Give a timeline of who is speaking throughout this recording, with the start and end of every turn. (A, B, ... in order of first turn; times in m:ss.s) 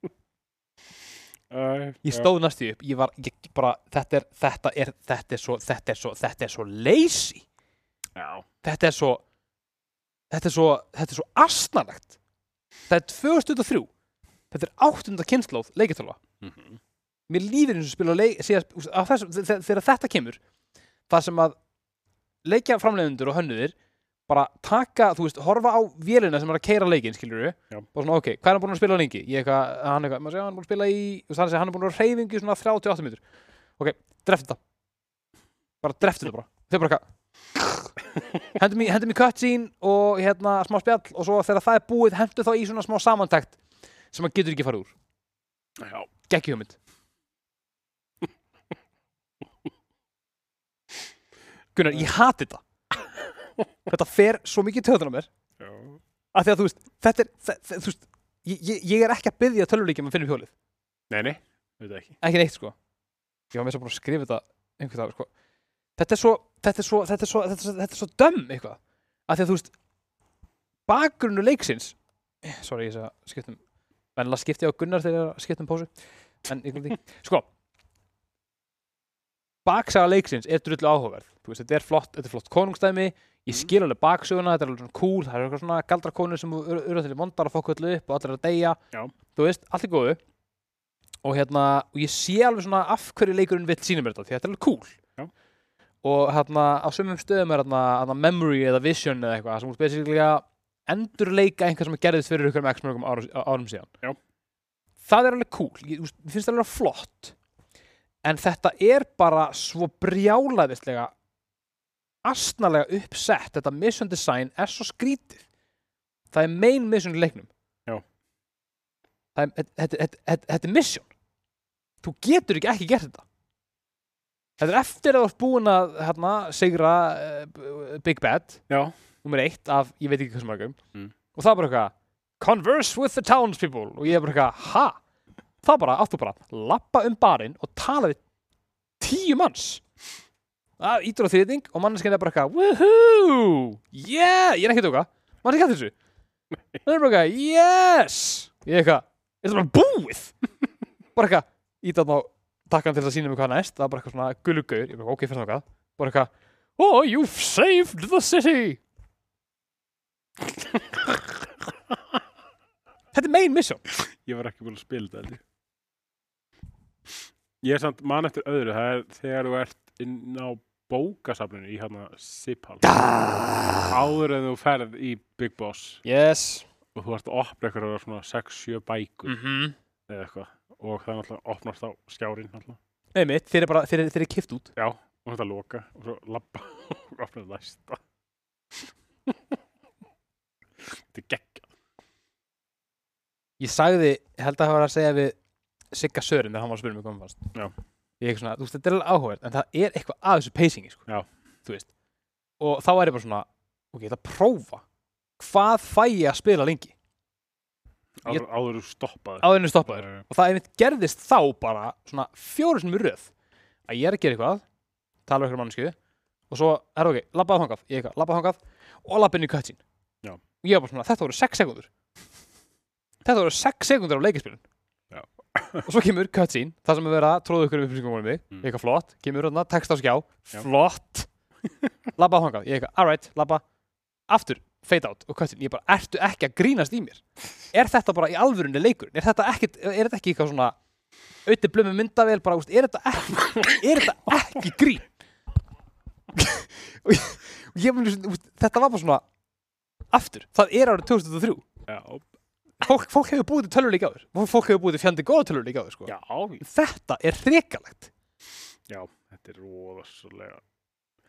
0:01.5-0:02.3 A
0:02.0-0:07.4 B
0:08.2-0:08.4 A
0:08.6-0:09.2 B
0:10.3-0:12.2 B
0:12.9-0:13.9 B
0:14.5-0:16.2 B
0:16.4-0:16.8 A
0:17.3-0:20.4 B
0:21.1-0:21.6 B
0:22.4-0:23.7 B
0:24.3-0:33.2 B
0:33.8-0:34.6 B
0:35.8-0:37.0 B
0:37.6-0:37.9 B
0:38.5-0:43.6 B
0:44.1-0:44.9 B
0:45.8-0:46.1 A
0:46.3-0:46.8 B
0:51.7-0:52.6 B
0:53.9-0:55.3 B
0:55.6-0:56.0 A
0:56.3-1:00.5 B
1:01.1-1:02.2 A
1:02.2-1:02.7 B
1:03.5-1:05.3 B
1:06.0-1:09.7 B
1:10.9-1:13.6 B
1:14.2-1:15.9 B
1:16.4-1:17.4 B
1:19.6-1:28.8 B
1:29.3-1:30.2 B
1:31.2-1:35.0 B
1:36.0-1:43.9 B
1:45.0-1:47.3 B
1:48.2-1:51.1 B
1:52.2-1:55.4 B
1:56.3-1:57.5 B
1:59.3-2:01.1 B
2:02.0-2:03.2 B
2:04.6-2:08.6 B
2:08.7-2:08.9 A
2:09.2-2:10.8 B
2:11.3-2:15.0 B
2:15.6-2:18.2 B
2:19.0-2:19.8 B
2:20.8-2:25.9 B
2:26.8-2:30.3 B
2:31.2-2:38.8 B
2:43.1-2:43.8 B
2:43.9-2:45.4 A
2:47.6-2:53.0 A
2:52.8-2:53.9 B
2:53.9-2:56.0 A
2:56.0-2:56.6 B
2:56.9-2:59.4 A
2:59.2-2:59.8 B
3:00.1-3:02.8 A
3:03.1-3:04.7 B
3:04.8-3:08.0 A
3:08.8-3:09.4 A
3:10.8-3:11.7 A
3:13.6-3:15.4 B
3:15.9-3:17.4 B
3:18.2-3:21.0 B
3:21.6-3:21.9 B
3:22.6-3:24.8 B
3:25.4-3:26.9 B
3:28.2-3:30.2 A
3:29.4-3:33.3 B
3:33.9-3:34.6 B
3:35.3-3:35.9 B
3:36.5-3:39.8 B
3:40.6-3:41.9 B
3:43.2-3:44.6 B
3:45.1-3:45.9 A
3:45.8-3:51.3 B
3:52.2-3:53.6 B
3:54.3-4:00.8 B
4:01.4-4:05.1 B
4:06.3-4:09.2 B
4:10.1-4:11.6 B
4:11.9-4:12.2 A
4:12.8-4:18.1 B
4:16.1-4:16.6 A
4:18.9-4:20.6 A